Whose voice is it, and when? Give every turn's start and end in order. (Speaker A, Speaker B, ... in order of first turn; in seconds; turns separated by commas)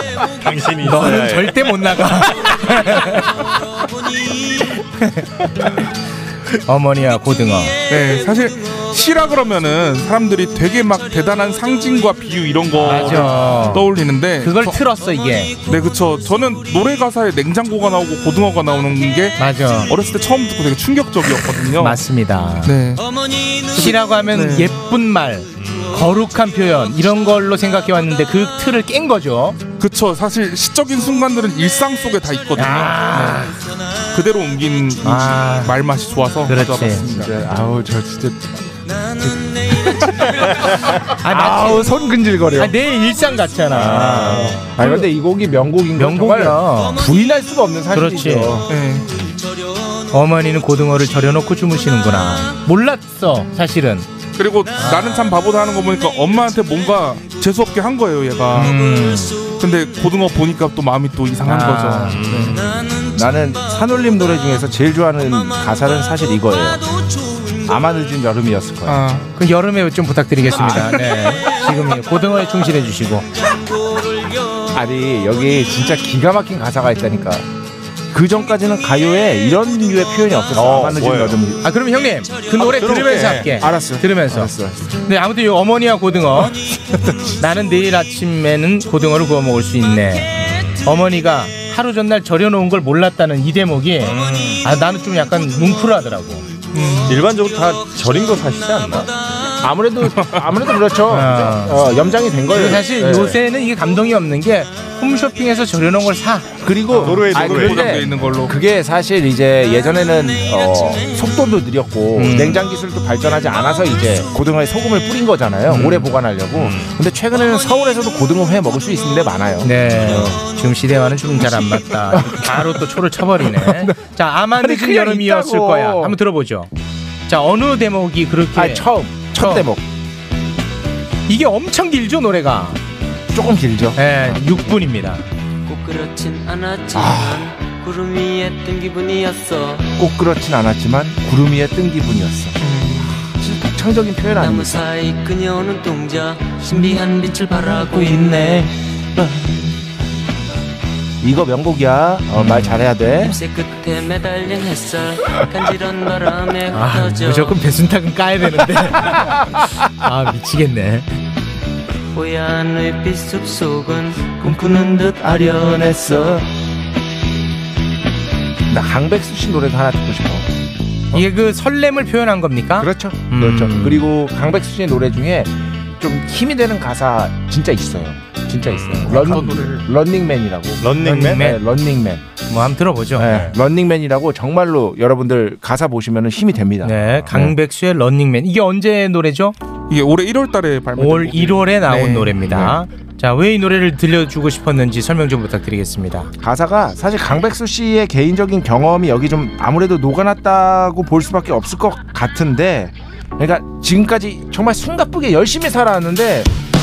Speaker A: 0.3-1.8, Speaker B: 0.8-3.3, Speaker B: 6.7-7.8, Speaker C: 7.9-14.8, Speaker B: 12.8-13.9, Speaker B: 14.4-15.6, Speaker C: 15.6-19.4, Speaker B: 19.4-19.9, Speaker C: 19.9-22.0, Speaker B: 21.8-22.8, Speaker C: 22.6-23.0, Speaker B: 23.7-29.6, Speaker C: 23.7-24.7, Speaker A: 25.6-26.1, Speaker C: 29.8-33.5, Speaker B: 32.6-33.6, Speaker C: 34.1-37.1, Speaker B: 35.0-35.8, Speaker B: 36.5-37.2, Speaker D: 36.9-38.8, Speaker B: 41.2-42.0, Speaker D: 41.2-42.8, Speaker B: 42.5-45.1, Speaker A: 43.7-44.7, Speaker D: 44.2-48.7, Speaker B: 46.0-47.0, Speaker B: 47.9-48.6, Speaker C: 48.7-49.1, Speaker B: 50.1-54.1, Speaker C: 54.4-58.8, Speaker B: 54.8-55.4, Speaker B: 58.5-59.5, Speaker C: 59.4-62.6, Speaker B: 61.5-62.7, Speaker A: 62.1-62.9, Speaker D: 63.0-66.8, Speaker D: 67.6-69.0, Speaker C: 68.9-69.3, Speaker B: 69.3-73.3, Speaker D: 74.7-77.5, Speaker D: 78.1-81.7, Speaker A: 80.5-81.4, Speaker B: 81.6-86.6, Speaker A: 82.5-83.5, Speaker D: 83.5-84.9, Speaker B: 87.4-90.3, Speaker A: 90.4-90.8, Speaker B: 90.8-96.5, Speaker A: 94.0-94.6, Speaker C: 96.7-97.2, Speaker A: 97.1-99.1, Speaker D: 99.6-103.4, Speaker C: 100.2-100.4, Speaker B: 101.1-101.9, Speaker B: 102.5-106.6, Speaker D: 106.6-120.4, Speaker A: 106.9-108.0, Speaker C: 106.9-108.5, Speaker B: 112.2-112.7, Speaker B: 115.7-116.1, Speaker A: 116.6-117.0, Speaker B: 119.6-126.7, Speaker A: 120.0-120.3, Speaker D: 122.1-122.9, Speaker D: 123.6-124.0, Speaker D: 124.5-126.2, Speaker B: 127.3-129.7, Speaker D: 128.6-129.8, Speaker B: 131.3-132.8, Speaker D: 133.3-134.4, Speaker B: 134.0-135.2, Speaker E: 135.7-139.9, Speaker D: 136.9-137.6, Speaker D: 140.0-144.8, Speaker C: 142.6-143.1, Speaker E: 144.3-148.7, Speaker D: 146.6-149.7, Speaker D: 151.2-153.4, Speaker B: 152.3-152.8, Speaker E: 153.2-157.7, Speaker B: 156.7-159.4, Speaker D: 159.1-159.5, Speaker B: 160.0-161.1, Speaker E: 162.1-166.3, Speaker D: 164.4-166.5, Speaker D: 168.7-170.5, Speaker B: 171.1-174.1, Speaker D: 172.8-182.4, Speaker A: 178.6-179.2, Speaker C: 179.1-179.8, Speaker A: 180.8-181.5, Speaker B: 181.0-181.6, Speaker B: 182.4-183.4, Speaker D: 183.2-187.6, Speaker B: 186.8-189.6, Speaker C: 189.9-192.4, Speaker B: 191.0-196.3, Speaker D: 192.5-192.8, Speaker D: 196.4-206.5